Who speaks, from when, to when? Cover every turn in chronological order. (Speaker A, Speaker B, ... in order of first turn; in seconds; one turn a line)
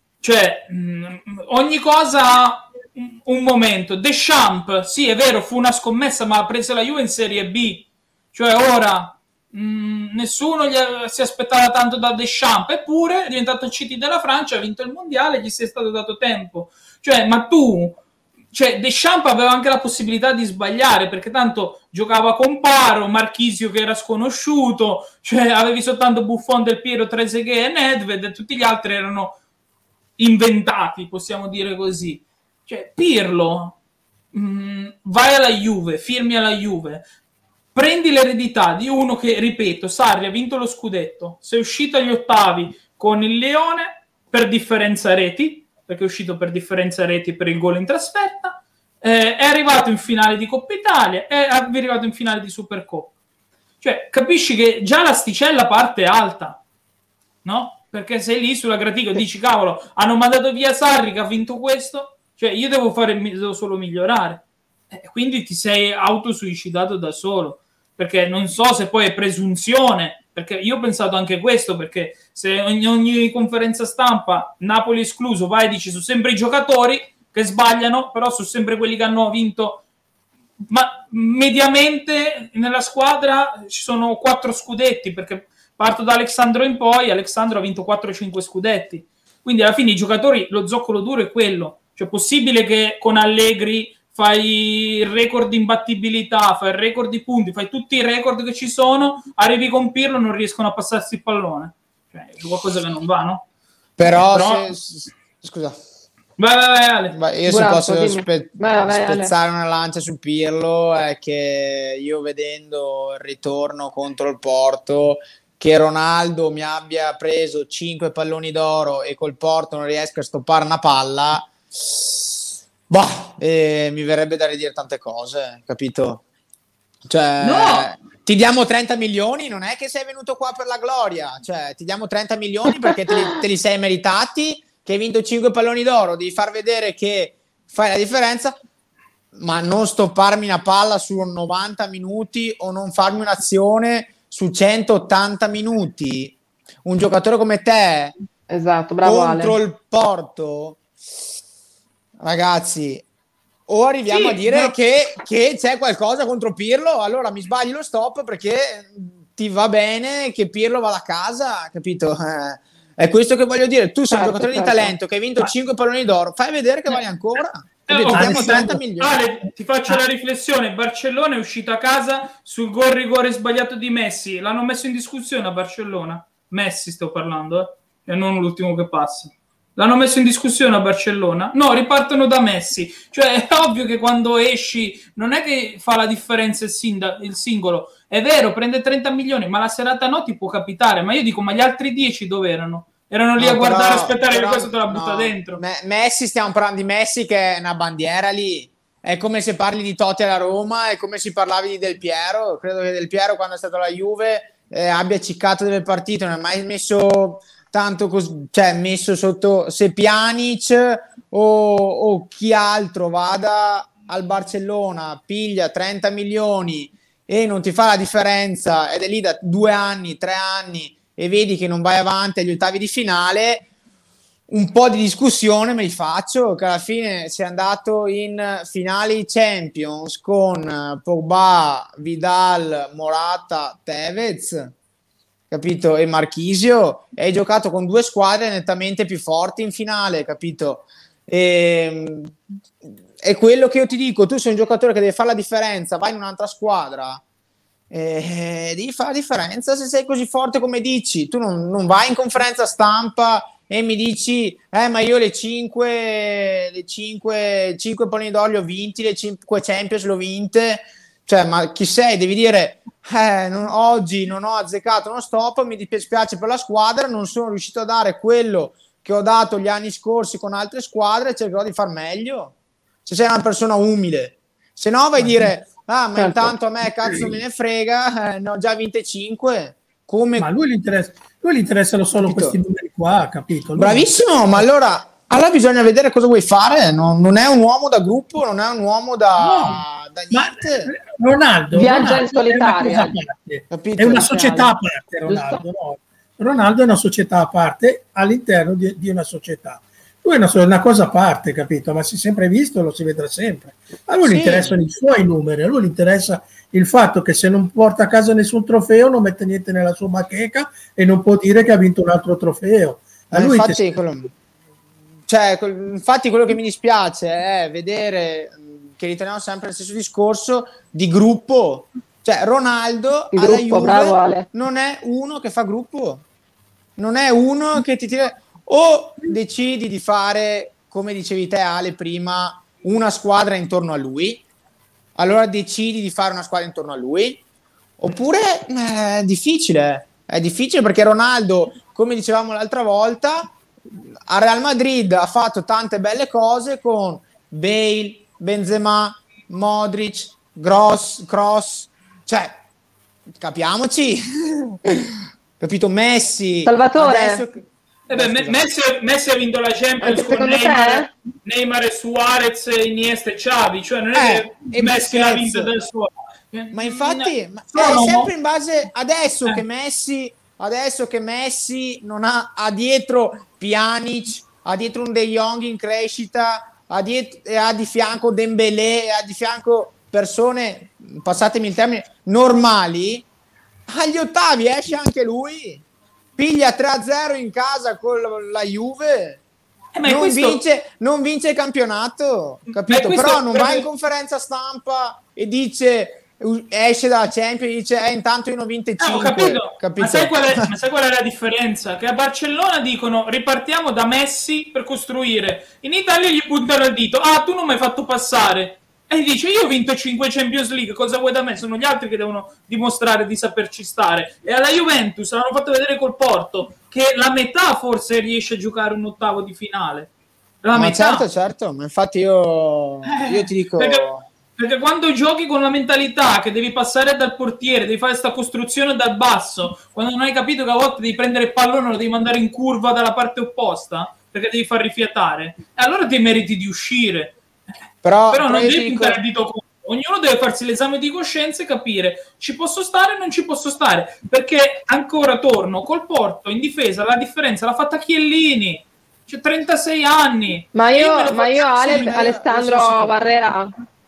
Speaker A: 0.2-18.0
Speaker A: 18.5-29.4
Speaker A: 30.2-33.8
Speaker A: 34.3-37.0
Speaker A: 37.7-53.1
Speaker A: 53.8-56.6
Speaker A: 57.4-79.8
Speaker A: 80.7-103.4
Speaker B: 104.0-105.8
Speaker A: 104.0-104.7
Speaker A: 106.4-107.1
Speaker B: 107.1-126.2
Speaker C: 107.5-109.3
Speaker B: 127.1-138.6
Speaker A: 127.4-127.9
Speaker B: 139.3-148.1
Speaker C: 148.5-149.5
Speaker B: 149.0-150.8
Speaker B: 152.2-153.0
Speaker B: 153.7-169.2
Speaker A: 154.1-154.8
Speaker C: 164.1-164.9
Speaker A: 166.9-195.6
Speaker D: 167.9-168.8
Speaker B: 193.4-223.6
Speaker B: 224.5-234.7
Speaker B: 235.5-242.4
Speaker B: 243.2-247.2
Speaker B: 247.9-280.5
Speaker D: 275.2-275.4
Speaker C: 276.2-276.4
Speaker D: 280.4-284.6
Speaker B: 282.2-282.6
Speaker B: 283.8-290.9
Speaker D: 289.4-313.9
Speaker C: 291.7-293.1
Speaker B: 293.7-294.7
Speaker C: 295.3-295.6
Speaker B: 304.2-304.7
Speaker B: 313.3-314.3
Speaker B: 315.3-326.2
Speaker C: 323.3-324.5
Speaker B: 327.0-334.4
Speaker B: 335.1-337.4
Speaker B: 338.0-343.5
Speaker B: 344.3-352.6
Speaker B: 353.4-358.7
Speaker C: 356.6-357.4
Speaker A: 358.1-368.3
Speaker C: 360.0-361.1
Speaker B: 364.1-365.7
Speaker B: 366.7-383.3
Speaker B: 383.9-385.8
Speaker B: 386.4-389.4
Speaker A: 389.9-390.6
Speaker B: 390.0-400.7
Speaker A: 392.7-393.9
Speaker A: 399.0-420.1
Speaker A: 420.6-421.2
Speaker B: 420.7-424.3
Speaker A: 423.1-437.4
Speaker B: 438.0-439.2
Speaker A: 438.3-452.6
Speaker C: 450.7-453.7
Speaker B: 451.7-453.1